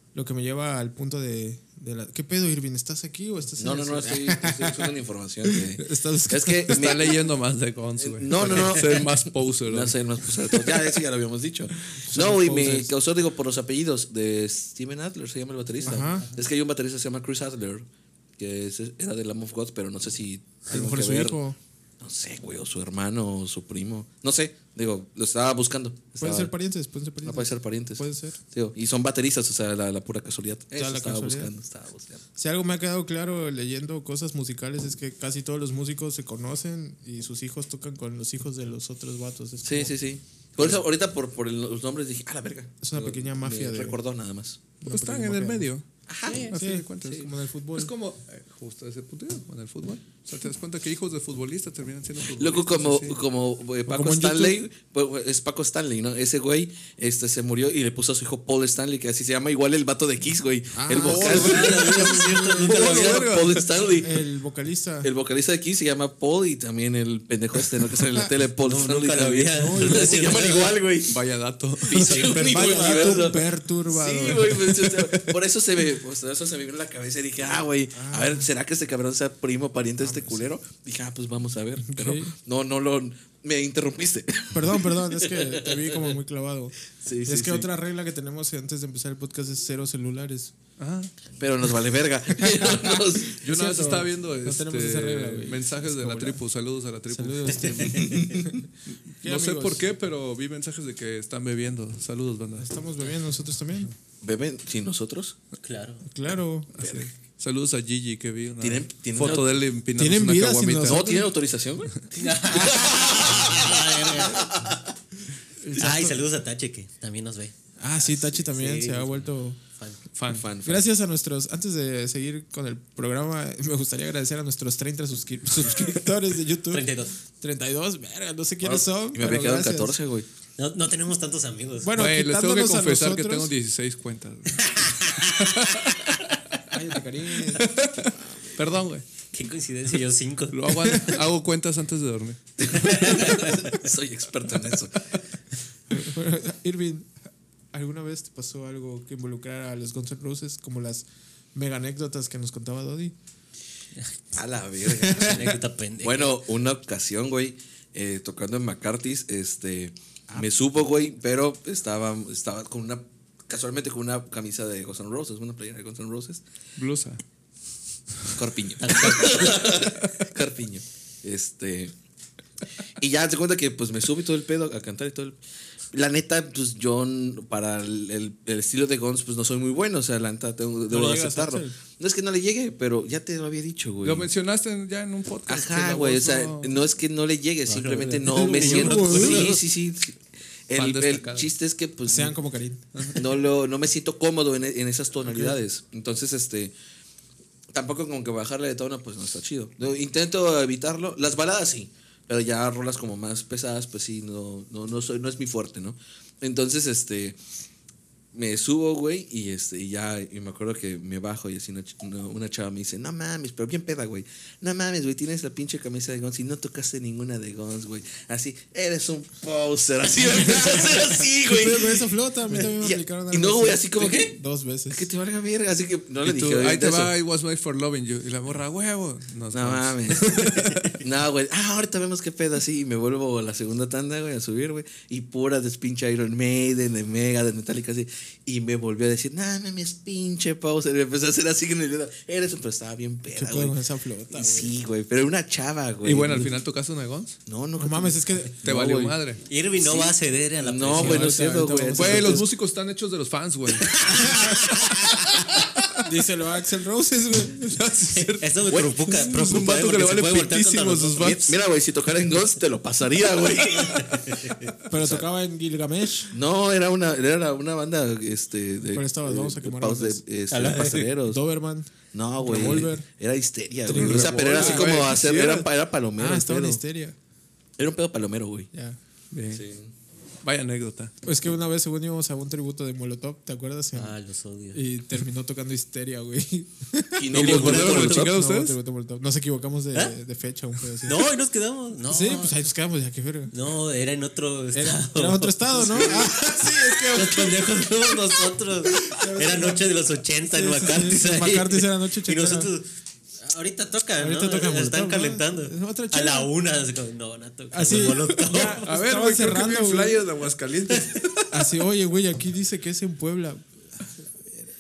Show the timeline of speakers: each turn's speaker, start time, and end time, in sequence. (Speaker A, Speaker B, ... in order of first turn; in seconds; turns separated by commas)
Speaker A: 0.1-7.1, Speaker B: 3.6-7.2, Speaker C: 6.7-10.0, Speaker B: 8.0-17.9, Speaker A: 12.0-12.9, Speaker D: 15.8-16.3, Speaker A: 15.8-16.3, Speaker B: 18.4-21.4, Speaker A: 20.7-21.6, Speaker B: 22.0-26.5, Speaker A: 26.2-28.4, Speaker B: 27.2-32.2, Speaker A: 30.7-31.5, Speaker A: 32.4-40.0, Speaker B: 39.6-44.6, Speaker A: 42.8-44.0, Speaker A: 44.8-45.7, Speaker C: 44.9-53.2, Speaker B: 46.1-46.5, Speaker A: 46.4-47.9, Speaker B: 52.3-64.2, Speaker A: 53.9-54.6, Speaker A: 60.7-61.8, Speaker C: 60.9-63.6, Speaker D: 61.2-63.3, Speaker A: 64.0-65.1, Speaker B: 65.0-71.2, Speaker D: 68.6-70.8, Speaker A: 69.5-70.5, Speaker C: 71.1-72.8, Speaker B: 71.8-86.1, Speaker A: 72.0-74.8, Speaker D: 72.0-73.2, Speaker C: 74.3-75.3, Speaker A: 77.9-78.5, Speaker A: 80.0-80.5, Speaker A: 81.8-82.3, Speaker A: 84.5-90.5, Speaker B: 87.0-87.7, Speaker C: 90.8-91.1, Speaker B: 91.4-93.4, Speaker A: 92.4-96.4, Speaker C: 93.4-97.9, Speaker A: 97.1-98.7, Speaker D: 97.8-98.2, Speaker B: 97.9-98.5, Speaker C: 98.9-102.7, Speaker A: 99.2-99.9, Speaker A: 102.6-103.9, Speaker B: 104.2-105.4, Speaker D: 105.6-106.0, Speaker A: 106.0-106.8, Speaker C: 106.8-111.0, Speaker B: 106.8-107.1, Speaker B: 108.6-109.5, Speaker A: 110.0-111.3, Speaker B: 110.9-114.9, Speaker D: 112.1-114.5, Speaker A: 115.6-116.2, Speaker D: 115.7-119.2, Speaker A: 117.8-119.6, Speaker C: 120.2-120.5, Speaker B: 120.3-120.9, Speaker A: 120.6-130.0, Speaker D: 126.7-127.2, Speaker B: 128.6-130.3, Speaker D: 130.6-132.0, Speaker A: 131.8-133.5, Speaker C: 132.0-136.2, Speaker D: 134.6-135.7, Speaker A: 136.7-137.7, Speaker C: 137.5-139.1, Speaker D: 139.3-141.2, Speaker C: 140.5-142.6, Speaker B: 142.6-145.1, Speaker D: 142.8-143.8, Speaker A: 145.9-147.1, Speaker A: 147.7-153.2, Speaker B: 154.3-166.4, Speaker A: 154.9-155.5, Speaker D: 155.2-156.3, Speaker C: 166.8-167.2, Speaker B: 168.3-171.9, Speaker D: 168.8-169.8, Speaker B: 173.0-175.4, Speaker B: 175.9-184.3, Speaker A: 180.9-181.8, Speaker C: 184.0-186.9, Speaker B: 185.5-192.3, Speaker D: 187.7-189.6, Speaker A: 188.2-189.6, Speaker C: 190.8-191.5, Speaker A: 192.1-192.8, Speaker C: 192.9-193.2, Speaker B: 193.2-196.7, Speaker A: 195.2-195.6, Speaker B: 197.7-207.4, Speaker B: 208.3-222.1, Speaker A: 220.4-225.1, Speaker B: 222.6-224.3, Speaker B: 224.9-227.1, Speaker C: 226.2-231.0, Speaker B: 229.5-230.4, Speaker B: 230.9-243.8, Speaker A: 243.3-244.7, Speaker B: 244.3-246.5, Speaker C: 246.0-247.4, Speaker B: 247.5-249.2, Speaker A: 247.8-248.6, Speaker C: 248.7-249.4, Speaker D: 249.5-251.4, Speaker B: 249.8-252.4, Speaker A: 250.9-252.5, Speaker C: 251.9-254.1, Speaker D: 253.8-255.2, Speaker C: 254.9-256.0, Speaker A: 256.0-257.9, Speaker C: 257.6-258.6, Speaker D: 258.2-261.3, Speaker C: 259.1-261.6, Speaker B: 261.2-265.2, Speaker D: 263.9-264.7, Speaker A: 264.9-266.3, Speaker B: 266.3-271.4, Speaker A: 268.9-270.2, Speaker D: 270.5-271.1, Speaker A: 271.2-273.1, Speaker B: 272.1-276.8, Speaker C: 272.5-272.9, Speaker A: 273.9-275.2, Speaker C: 273.9-275.7, Speaker A: 276.2-277.2, Speaker B: 277.8-278.7, Speaker A: 278.7-279.0, Speaker C: 279.3-279.6, Speaker B: 279.5-279.9, Speaker C: 280.4-281.1, Speaker A: 281.2-284.1, Speaker D: 283.9-284.8, Speaker A: 284.7-291.2, Speaker B: 287.2-288.3, Speaker C: 287.3-288.8, Speaker D: 291.1-292.6, Speaker A: 292.1-293.5, Speaker D: 293.5-302.9, Speaker A: 294.7-297.9, Speaker A: 299.1-299.9, Speaker A: 300.5-302.7, Speaker D: 303.4-308.8, Speaker A: 304.2-306.5, Speaker A: 307.7-310.3, Speaker C: 308.8-311.6, Speaker A: 311.5-314.5